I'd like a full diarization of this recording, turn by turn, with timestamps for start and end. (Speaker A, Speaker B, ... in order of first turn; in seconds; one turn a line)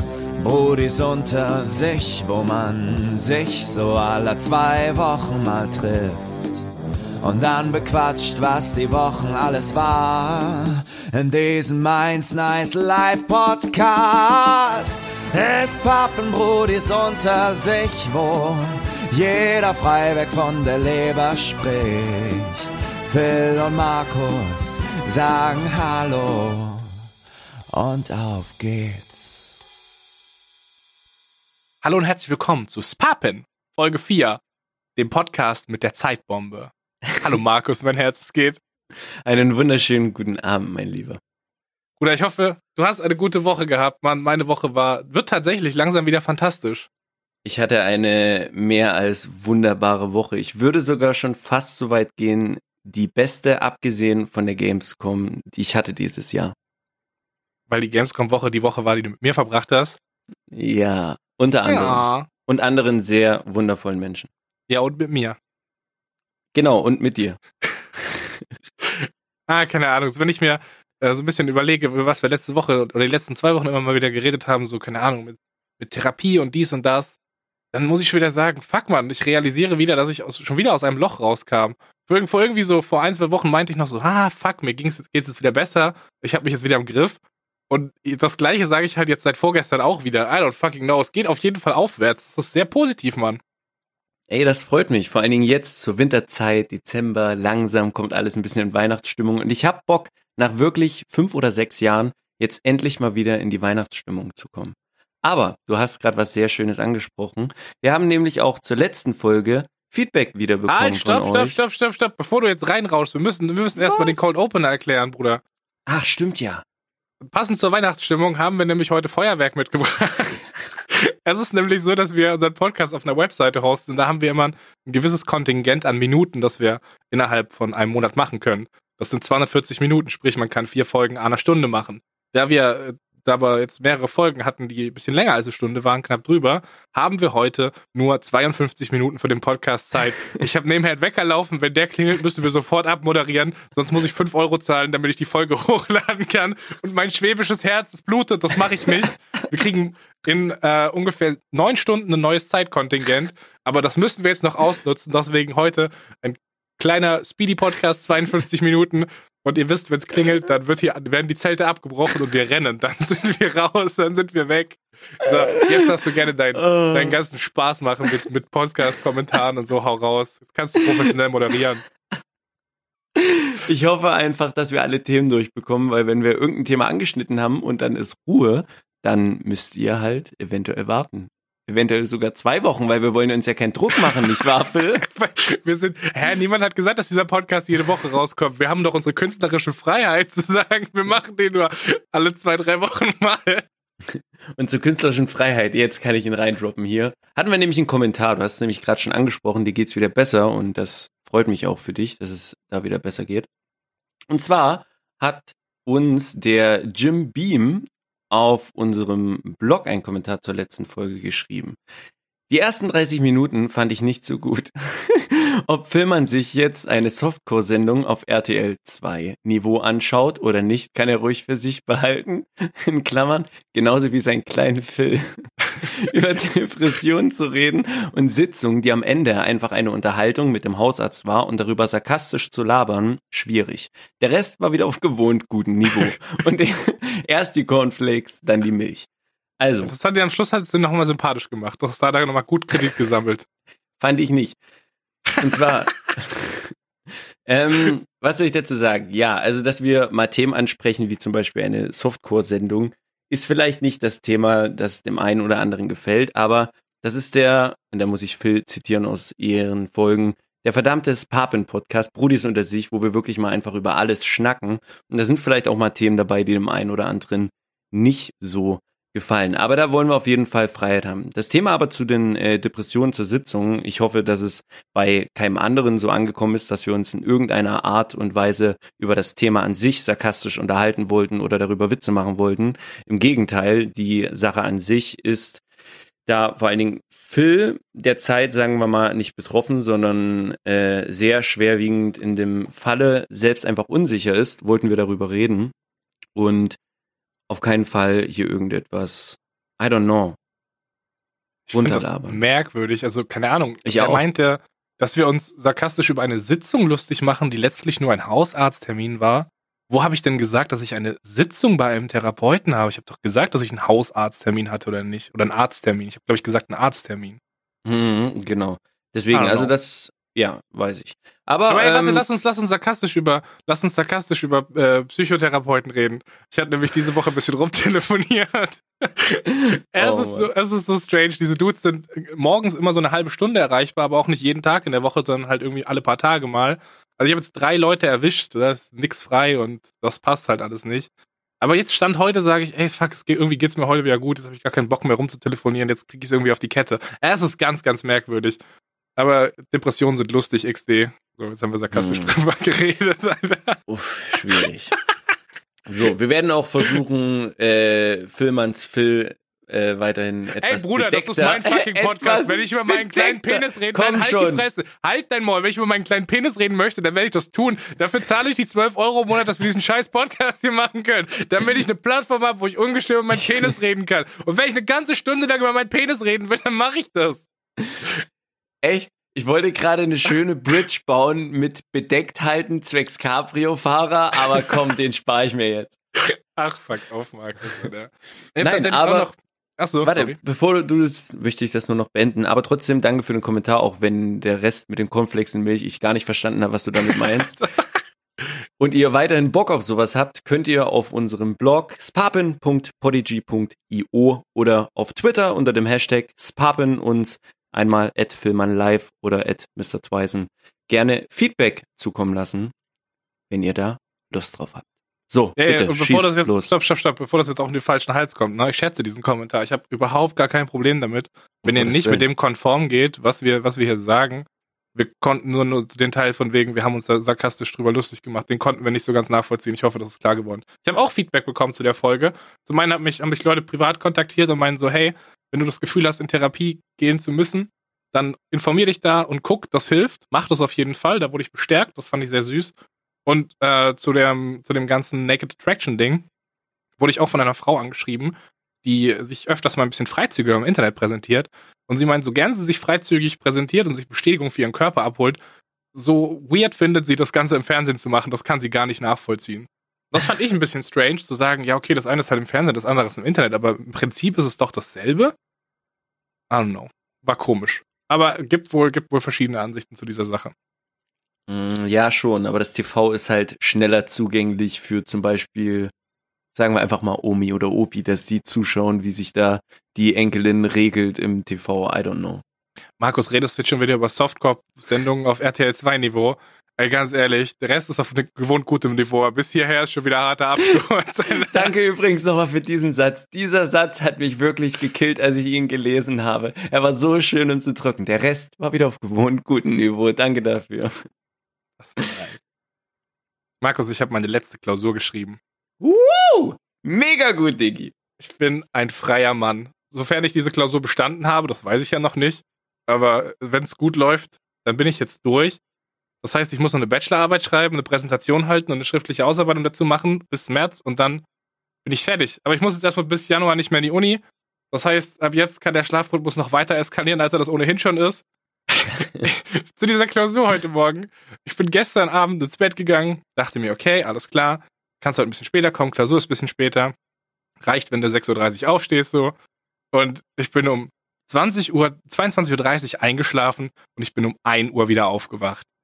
Speaker A: 0.4-6.6
Speaker A: 7.2-26.9
Speaker A: 27.7-29.5
Speaker B: 31.8-34.4
Speaker B: 35.0-38.6
Speaker C: 39.2-41.2
Speaker B: 42.0-46.9
Speaker C: 47.4-56.5
Speaker B: 57.7-60.0
Speaker C: 60.5-64.3
Speaker B: 61.6-62.3
Speaker B: 64.7-65.3
Speaker C: 66.5-67.4
Speaker C: 68.0-68.4
Speaker B: 68.9-77.2
Speaker B: 77.7-87.2
Speaker B: 87.7-93.4
Speaker C: 94.3-111.6
Speaker B: 110.7-115.4
Speaker C: 113.8-114.2
Speaker C: 115.9-116.6
Speaker B: 117.3-171.8
Speaker C: 165.5-165.8
Speaker C: 166.5-167.2
Speaker C: 173.6-185.0
Speaker B: 185.0-193.6
Speaker C: 194.1-203.5
Speaker C: 204.3-211.8
Speaker C: 212.5-239.1
Speaker C: 239.6-239.9
Speaker B: 239.8-243.4
Speaker C: 244.0-244.6
Speaker C: 245.4-246.7
Speaker C: 247.4-285.6
Speaker C: 286.2-295.7
Speaker C: 296.3-296.8
Speaker C: 297.5-300.4
Speaker B: 301.7-317.4
Speaker C: 301.7-302.4
Speaker C: 303.8-304.2
Speaker C: 317.8-322.2
Speaker B: 319.3-319.7
Speaker B: 321.7-341.1
Speaker C: 330.0-330.5
Speaker B: 341.6-348.6
Speaker B: 349.2-353.8
Speaker C: 351.9-352.4
Speaker C: 353.9-354.9
Speaker C: 355.9-364.7
Speaker B: 360.6-377.5
Speaker C: 378.8-385.9
Speaker B: 386.2-390.4
Speaker C: 388.6-389.3
Speaker C: 390.0-397.6
Speaker B: 397.1-397.7
Speaker C: 398.8-412.7
Speaker C: 413.5-416.7
Speaker B: 415.6-442.7
Speaker C: 421.6-422.2
Speaker B: 443.2-446.2
Speaker B: 447.0-455.4
Speaker B: 455.9-465.3
Speaker B: 466.5-470.5
Speaker C: 471.5-475.9
Speaker C: 476.5-482.4
Speaker B: 483.0-491.7
Speaker C: 491.5-500.9
Speaker B: 501.8-502.4
Speaker B: 503.6-505.4
Speaker C: 505.8-507.9
Speaker B: 508.2-515.6
Speaker B: 516.2-521.2
Speaker B: 521.8-536.9
Speaker B: 537.6-539.3
Speaker B: 539.9-545.6